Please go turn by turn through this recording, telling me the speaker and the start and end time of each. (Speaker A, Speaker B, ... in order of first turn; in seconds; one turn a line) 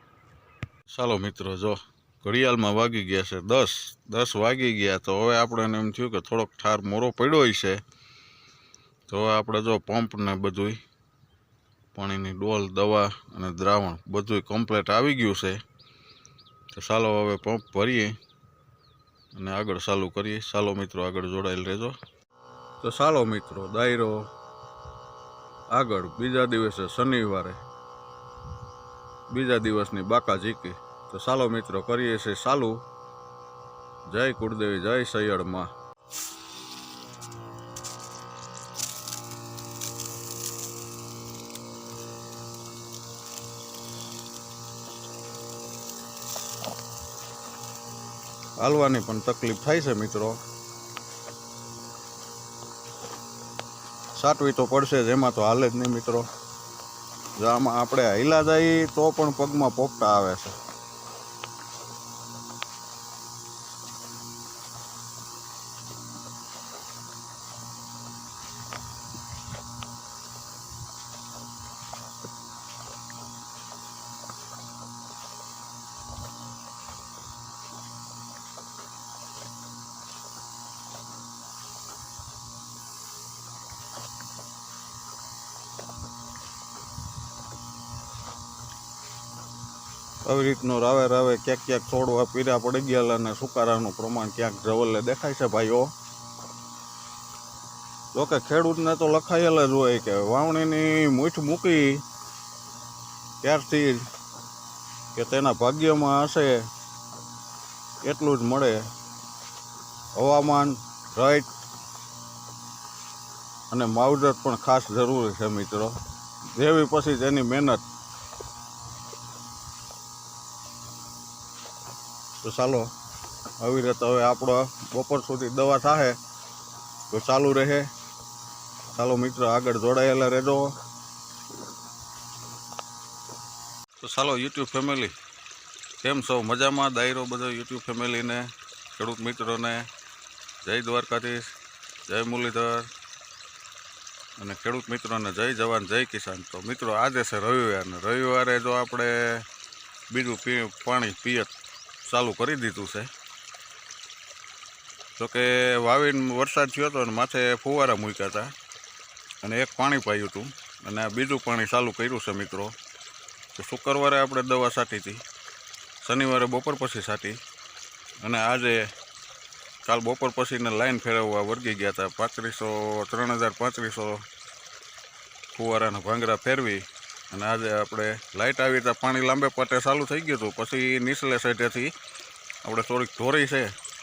Speaker A: 0.9-7.8
Speaker A: 9.1-10.8
Speaker A: 11.9-15.6
Speaker A: 16.7-18.1
Speaker A: 19.3-22.0
Speaker A: 22.8-24.2
Speaker A: 25.7-27.6
Speaker A: 29.3-32.8
Speaker A: 34.1-35.7
Speaker A: 48.6-50.4
Speaker A: 54.1-56.3
Speaker A: 57.4-60.6
Speaker A: 90.2-95.9
Speaker A: 98.1-102.0
Speaker A: 103.4-104.1
Speaker A: 105.1-106.7
Speaker A: 108.0-108.8
Speaker A: 110.2-111.5
Speaker A: 113.7-116.0
Speaker A: 116.5-117.8
Speaker A: 122.4-122.9
Speaker A: 123.6-126.2
Speaker A: 127.1-127.9
Speaker A: 128.9-130.7
Speaker A: 134.0-135.1
Speaker A: 136.0-139.9
Speaker A: 140.6-141.5
Speaker A: 142.1-142.9
Speaker A: 144.4-149.4
Speaker A: 150.1-151.5
Speaker A: 152.0-153.1
Speaker A: 155.2-158.5
Speaker A: 159.4-162.7
Speaker A: 163.6-165.2
Speaker A: 166.0-167.4
Speaker A: 168.2-168.8
Speaker A: 169.8-174.2
Speaker A: 175.5-181.9
Speaker A: 182.6-183.7